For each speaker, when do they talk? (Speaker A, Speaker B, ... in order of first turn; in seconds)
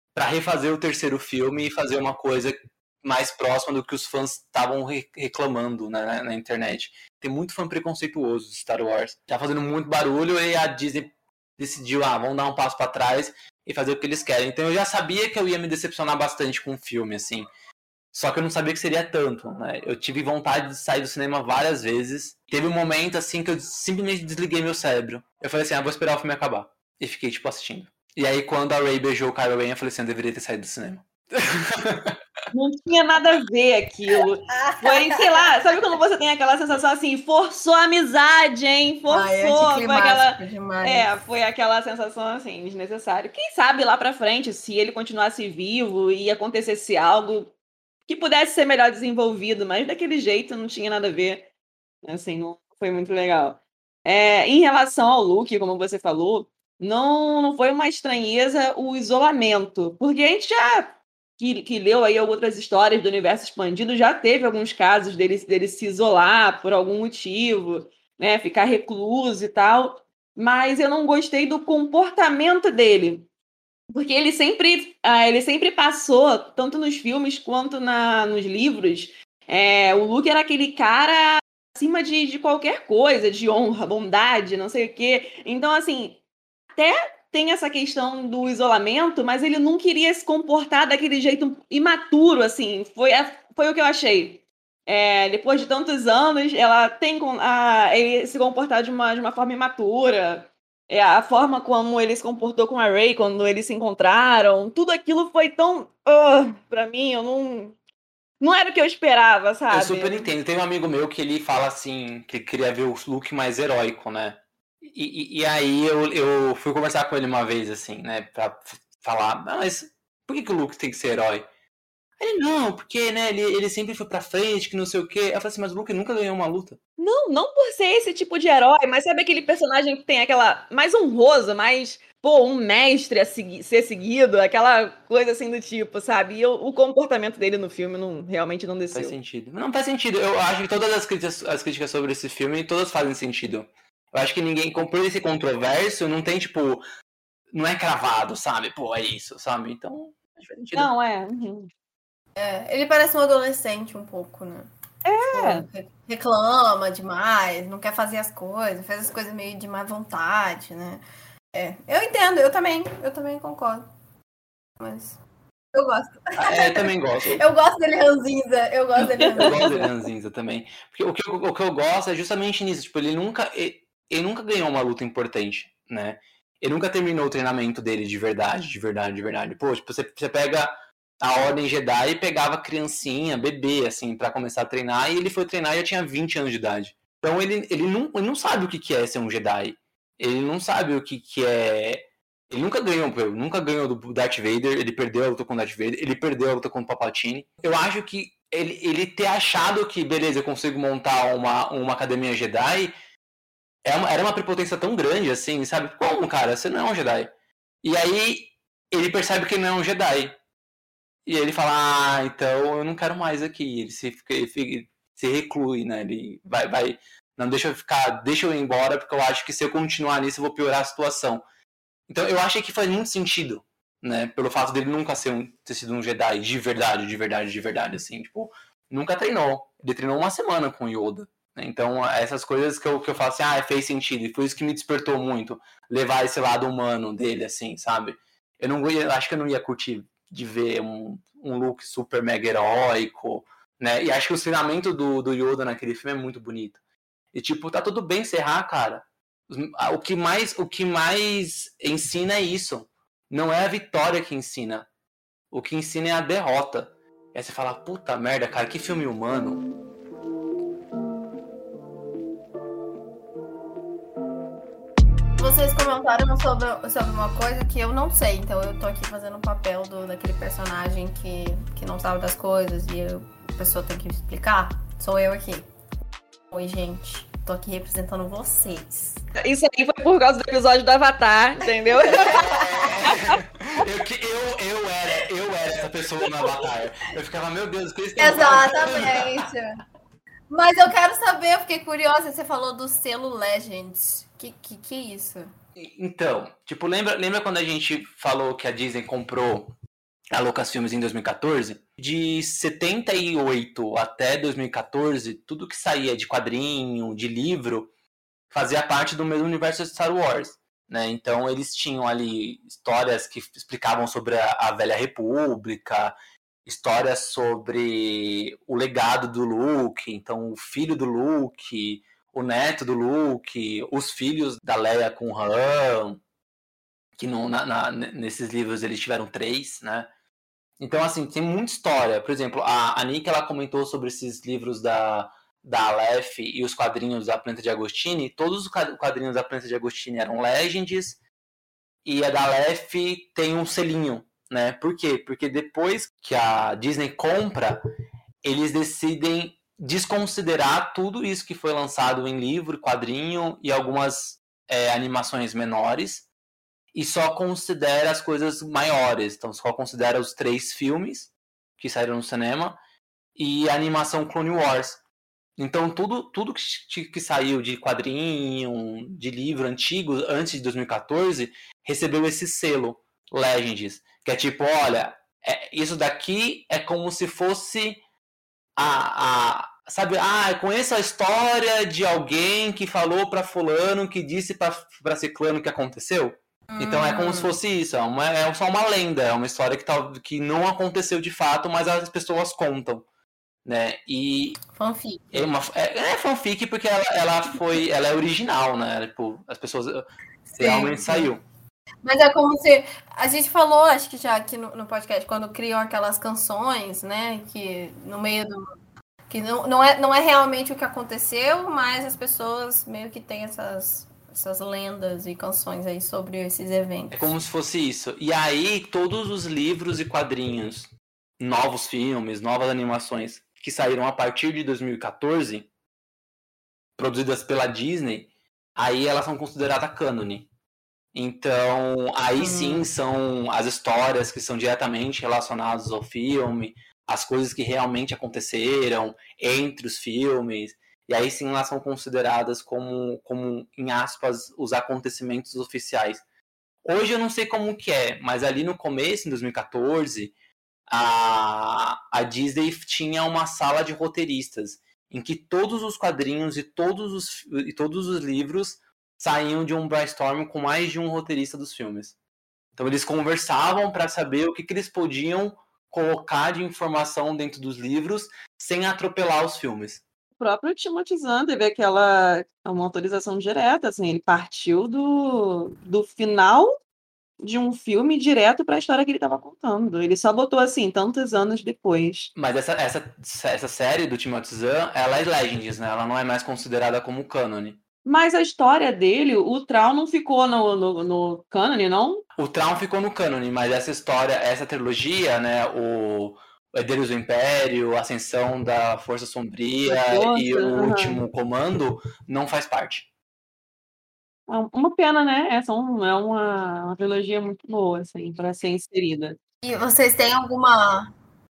Speaker A: 0.1-17.5, 18.1-32.2, 109.7-121.4, 122.2-126.8, 138.9-146.8, 147.5-150.9, 166.4-167.4, 169.0-202.9, 203.8-207.3, 207.8-210.3, 211.2-221.4, 222.1-246.8, 247.3-254.8, 255.5-259.6, 282.3-289.4, 295.8-299.8, 300.3-307.9, 308.5-316.1, 316.6-326.2, 327.2-330.1, 330.8-341.2, 342.0-347.8, 348.4-356.3, 356.9-362.8, 363.4-365.0, 365.6-378.0, 378.8-393.0, 393.6-394.6, 395.3-400.0, 400.6-401.4, 417.1-425.7, 427.0-430.5, 431.1-446.2, 446.8-450.3, 450.9-462.1, 462.8-470.0, 482.3-487.8, 492.4-503.1
Speaker B: 32.5-47.5, 48.1-51.5, 52.0-73.2, 73.9-86.2, 86.8-107.8, 108.4-110.3, 127.0-139.2, 150.7-151.7, 155.1-155.7, 169.2-169.7, 279.4-283.4, 470.4-476.7, 477.4-482.3, 488.0-492.2, 499.9-501.2, 504.5-509.4
Speaker C: 34.5-35.5, 39.1-41.2, 152.4-154.7, 155.3-161.0, 161.5-163.8, 164.8-165.2, 165.7-169.8, 265.4-275.6, 276.5-279.2, 281.8-283.0, 288.2-289.7, 290.5-295.5, 386.7-387.6, 394.7-395.4, 400.5-401.3, 402.0-408.6, 409.3-417.3, 432.4-432.9, 509.6-511.1